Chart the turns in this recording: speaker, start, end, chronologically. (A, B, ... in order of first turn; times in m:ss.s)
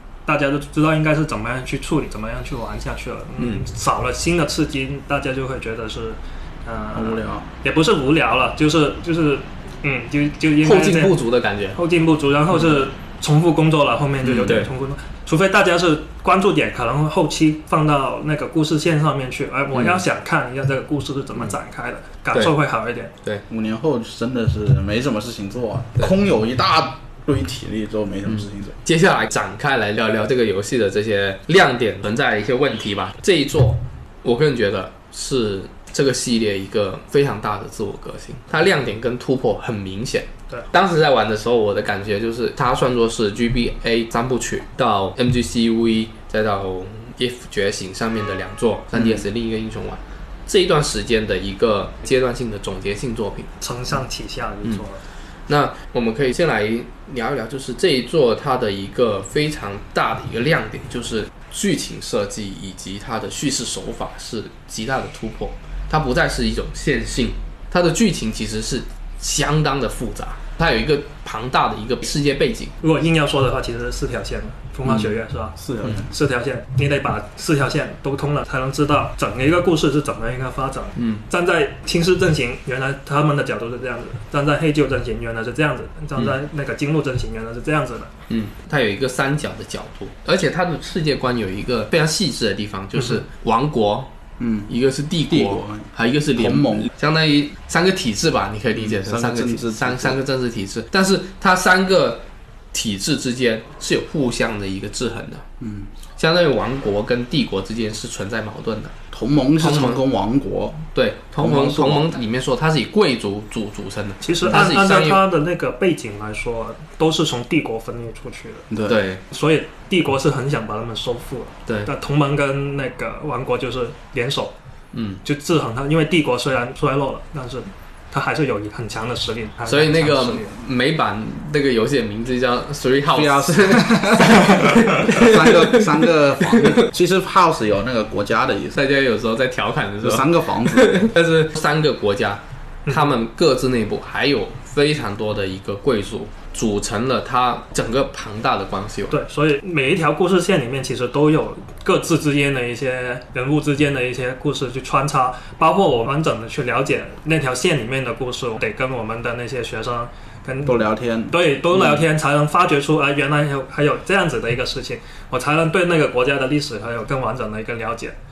0:00.3-0:11.2 A
0:03.4-0:03.7 B
0:06.9-0:07.5 C
0:10.6-0:11.8 B
0:11.7-0:23.1 A
0:14.2-0:14.7 B
0:19.7-0:20.0 B
0:23.5-0:28.8 C
0:28.3-0:53.5 B
0:49.0-0:49.3 C
0:53.6-0:55.0 A
0:55.5-1:12.7 B
1:12.8-1:15.6 A
1:15.6-1:16.1 C
1:16.1-1:28.1 A
1:21.0-1:21.2 B
1:28.3-1:34.1 B
1:34.4-1:34.7 C
1:34.7-1:45.4 B
1:35.3-1:36.9 C
1:38.8-1:40.2 C
1:45.6-1:45.9 C
1:46.2-1:48.9 B
1:49.1-1:50.8 C
1:49.6-1:50.0 B
1:51.0-1:55.2 B
1:51.4-1:52.1 C
1:54.2-1:58.7 A
1:58.7-1:59.0 C
1:58.9-1:59.2 B
1:59.3-2:04.5 A
2:04.9-2:05.2 B
2:05.2-2:10.5 A
2:09.7-2:16.8 B
2:13.1-2:18.8 C
2:18.7-2:29.2 B
2:20.0-2:21.1 C
2:22.9-2:23.1 A
2:29.1-2:48.2 A
2:40.6-2:41.4 C
2:41.7-2:42.0 B